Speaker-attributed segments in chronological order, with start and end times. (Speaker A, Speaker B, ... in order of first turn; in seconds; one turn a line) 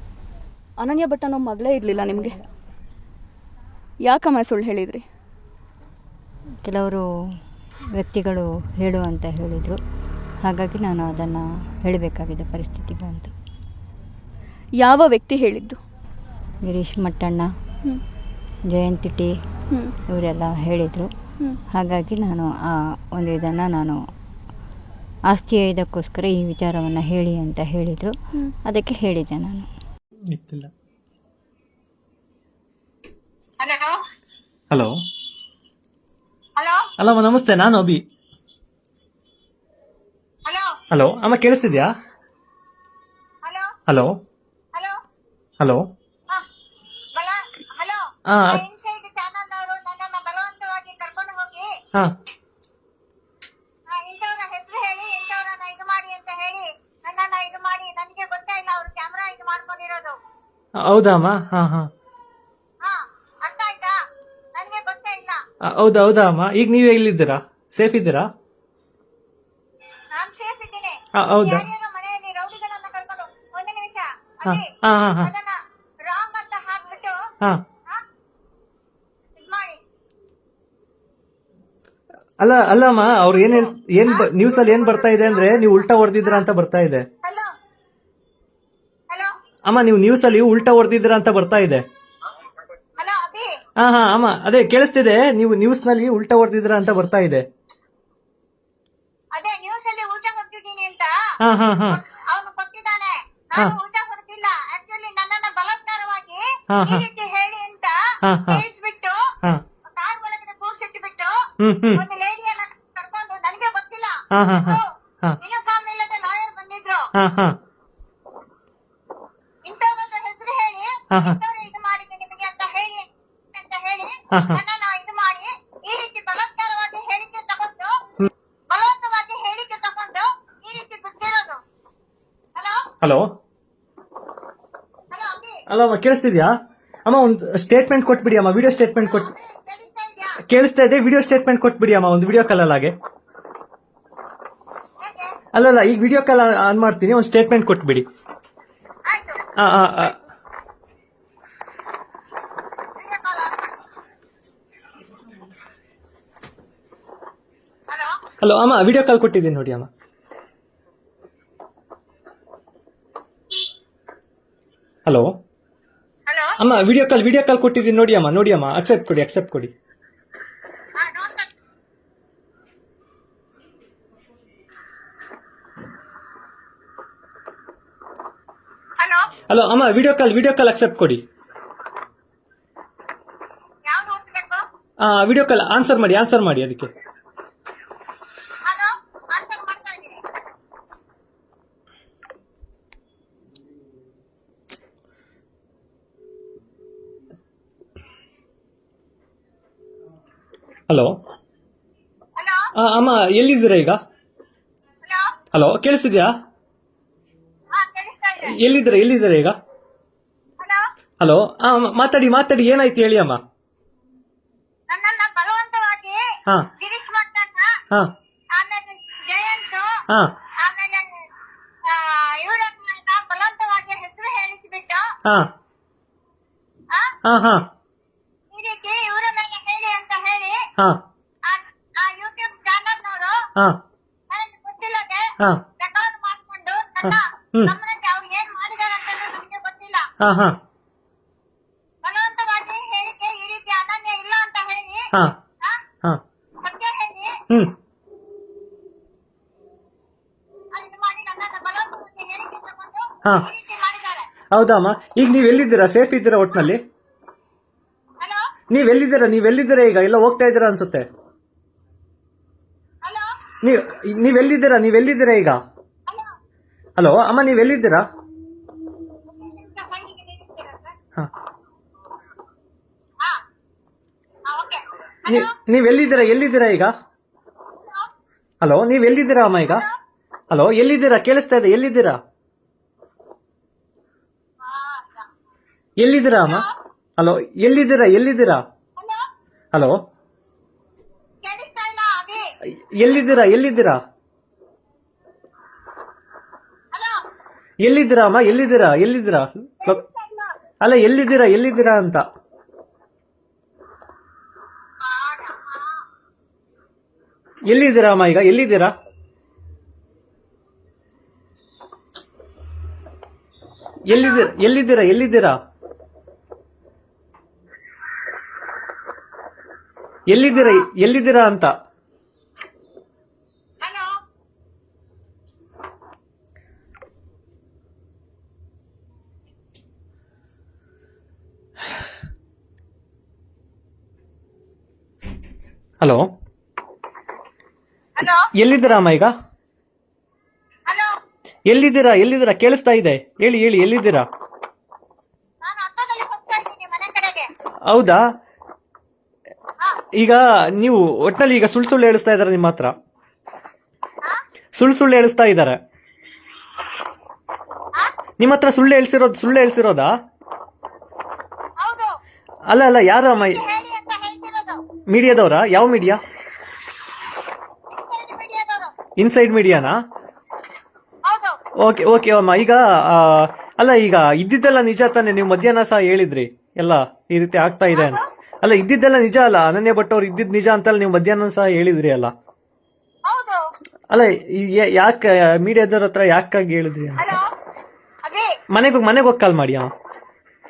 Speaker A: 0.8-2.3
Speaker A: 4.0-5.0
Speaker B: 6.6-7.0
Speaker B: 7.9-9.8
Speaker B: 10.4-13.3
Speaker A: 14.8-15.8
Speaker B: 16.6-17.5
Speaker B: 18.7-19.3
Speaker B: 20.1-21.1
Speaker B: 21.7-24.0
Speaker B: 25.3-29.7
Speaker C: 30.3-30.7
Speaker D: 33.6-34.0
Speaker D: 36.6-36.9
Speaker C: 37.0-38.0
Speaker D: 40.5-40.7
Speaker C: 40.9-41.9
Speaker D: 43.4-43.7
Speaker C: 43.9-44.2
Speaker C: 45.6-45.9
Speaker D: 47.1-51.7
Speaker C: 48.3-48.6
Speaker D: 53.9-60.1
Speaker C: 60.8-61.9
Speaker D: 62.8-63.9
Speaker D: 64.5-65.4
Speaker C: 65.6-68.3
Speaker D: 70.1-74.7
Speaker C: 71.2-71.6
Speaker C: 74.5-75.3
Speaker D: 75.2-77.2
Speaker D: 79.4-79.8
Speaker C: 82.4-87.0
Speaker D: 83.5-86.4
Speaker D: 87.2-87.5
Speaker C: 89.6-91.8
Speaker D: 93.0-93.5
Speaker C: 93.8-97.5
Speaker D: 99.3-101.1
Speaker C: 101.4-102.0
Speaker D: 101.9-108.0
Speaker C: 106.7-107.0
Speaker C: 108.2-108.6
Speaker D: 108.5-109.2
Speaker D: 109.9-111.3
Speaker C: 111.6-112.0
Speaker D: 111.9-114.9
Speaker C: 114.3-115.4
Speaker D: 115.4-117.1
Speaker C: 117.2-117.6
Speaker D: 119.6-128.0
Speaker C: 121.1-121.4
Speaker C: 124.3-124.6
Speaker D: 128.7-131.6
Speaker D: 132.5-132.9
Speaker C: 133.0-133.3
Speaker D: 135.1-135.6
Speaker C: 135.7-136.5
Speaker C: 137.1-139.3
Speaker D: 139.0-140.4
Speaker C: 140.5-142.9
Speaker D: 145.0-145.3
Speaker C: 145.5-148.1
Speaker D: 149.1-149.4
Speaker C: 149.6-150.2
Speaker D: 153.0-153.8
Speaker D: 157.9-158.2
Speaker C: 158.4-159.9
Speaker C: 165.1-165.3
Speaker D: 166.3-166.5
Speaker C: 166.6-169.7
Speaker D: 171.0-171.5
Speaker D: 179.0-179.3
Speaker C: 179.5-181.2
Speaker D: 183.9-184.6
Speaker C: 185.0-186.9
Speaker D: 188.6-190.2
Speaker C: 200.9-201.2
Speaker D: 202.4-202.7
Speaker C: 202.8-204.0
Speaker D: 205.0-205.3
Speaker C: 205.5-206.3
Speaker D: 207.7-208.6
Speaker C: 208.4-209.6
Speaker C: 211.2-213.4
Speaker D: 214.9-216.2
Speaker D: 216.8-217.7
Speaker D: 218.5-219.9
Speaker D: 220.6-221.3
Speaker D: 221.8-225.1
Speaker C: 225.2-225.5
Speaker C: 227.2-227.7
Speaker D: 228.5-230.7
Speaker D: 231.5-233.4
Speaker D: 234.3-240.1
Speaker C: 237.0-237.7
Speaker C: 240.2-240.6
Speaker D: 242.0-245.1
Speaker D: 246.6-247.4
Speaker D: 250.7-254.3
Speaker C: 254.5-256.8
Speaker C: 258.7-261.1
Speaker C: 263.6-265.6
Speaker C: 267.0-268.0
Speaker D: 269.3-270.9
Speaker D: 274.5-275.5
Speaker C: 275.3-276.9
Speaker C: 278.6-279.8
Speaker D: 279.5-279.9
Speaker C: 280.5-282.2
Speaker D: 284.6-285.2
Speaker C: 286.0-286.6
Speaker D: 286.4-286.7
Speaker C: 287.2-288.6
Speaker C: 289.7-290.0
Speaker D: 291.4-292.5
Speaker C: 292.9-294.0
Speaker C: 297.8-300.0
Speaker D: 299.8-300.5
Speaker C: 300.8-302.3
Speaker D: 305.0-306.0
Speaker C: 307.7-308.9
Speaker C: 314.1-315.6
Speaker D: 314.1-314.5
Speaker C: 320.3-321.7
Speaker D: 320.5-320.8
Speaker D: 323.8-324.1
Speaker C: 336.0-336.3
Speaker D: 338.2-338.5
Speaker C: 338.6-339.3
Speaker C: 341.6-344.3
Speaker D: 345.6-347.5
Speaker C: 347.9-348.2
Speaker C: 350.1-352.9
Speaker C: 354.7-355.8
Speaker C: 358.4-360.1
Speaker D: 361.8-362.1
Speaker C: 362.7-363.6
Speaker D: 363.3-364.8
Speaker C: 365.1-366.2
Speaker D: 367.9-368.9
Speaker C: 369.2-370.0
Speaker D: 371.2-371.6
Speaker C: 371.8-382.3
Speaker D: 377.9-378.2
Speaker D: 383.3-383.6
Speaker C: 384.1-387.3
Speaker D: 387.2-387.5
Speaker D: 388.2-388.5
Speaker C: 388.7-389.9